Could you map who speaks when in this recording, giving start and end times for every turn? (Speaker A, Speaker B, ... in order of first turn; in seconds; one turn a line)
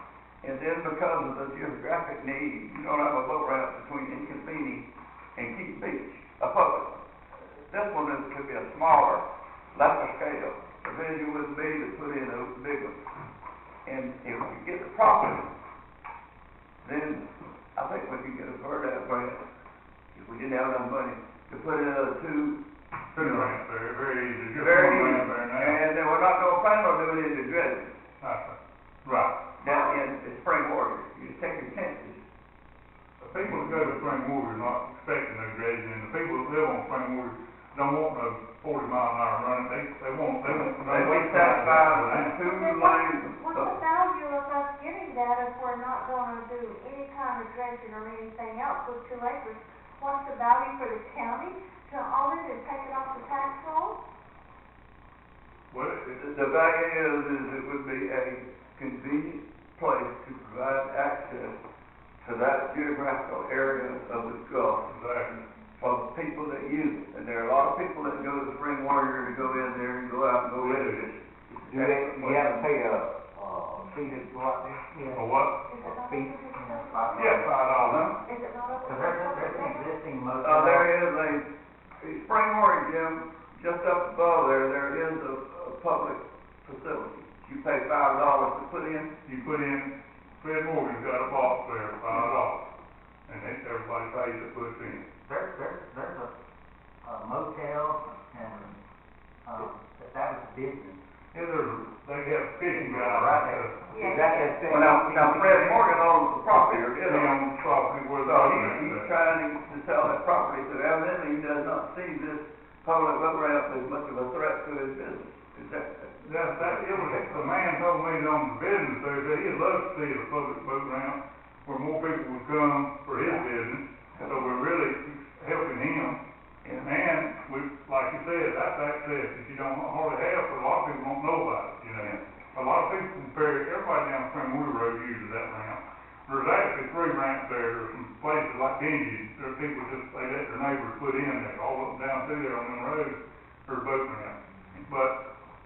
Speaker A: 0.4-7.0
Speaker A: 7.6-13.0
Speaker A: 13.8-15.5
Speaker A: 16.8-19.4
Speaker A: 20.1-22.6
Speaker B: 23.1-25.8
Speaker A: 23.1-23.5
Speaker A: 24.5-28.0
Speaker B: 28.2-29.4
Speaker A: 29.6-32.2
Speaker C: 29.7-29.9
Speaker B: 33.2-42.4
Speaker A: 33.5-33.7
Speaker A: 40.8-43.8
Speaker C: 42.4-54.0
Speaker B: 55.7-56.2
Speaker A: 56.2-61.6
Speaker A: 62.2-64.9
Speaker B: 64.9-65.4
Speaker A: 65.8-72.6
Speaker B: 70.6-71.0
Speaker D: 71.6-74.9
Speaker E: 74.9-75.4
Speaker B: 75.1-75.6
Speaker C: 75.5-77.5
Speaker E: 75.9-78.2
Speaker B: 77.1-78.2
Speaker C: 78.2-79.9
Speaker E: 78.8-80.9
Speaker A: 80.4-89.1
Speaker B: 89.2-92.7
Speaker B: 93.3-95.0
Speaker E: 95.2-96.3
Speaker E: 97.0-98.8
Speaker E: 99.5-101.0
Speaker B: 101.3-103.8
Speaker E: 102.7-103.7
Speaker C: 103.9-104.7
Speaker D: 104.0-106.0
Speaker A: 104.7-107.4
Speaker B: 106.8-109.1
Speaker A: 108.2-117.4
Speaker B: 116.2-126.2
Speaker A: 124.2-124.5
Speaker A: 126.6-126.9
Speaker B: 126.8-145.2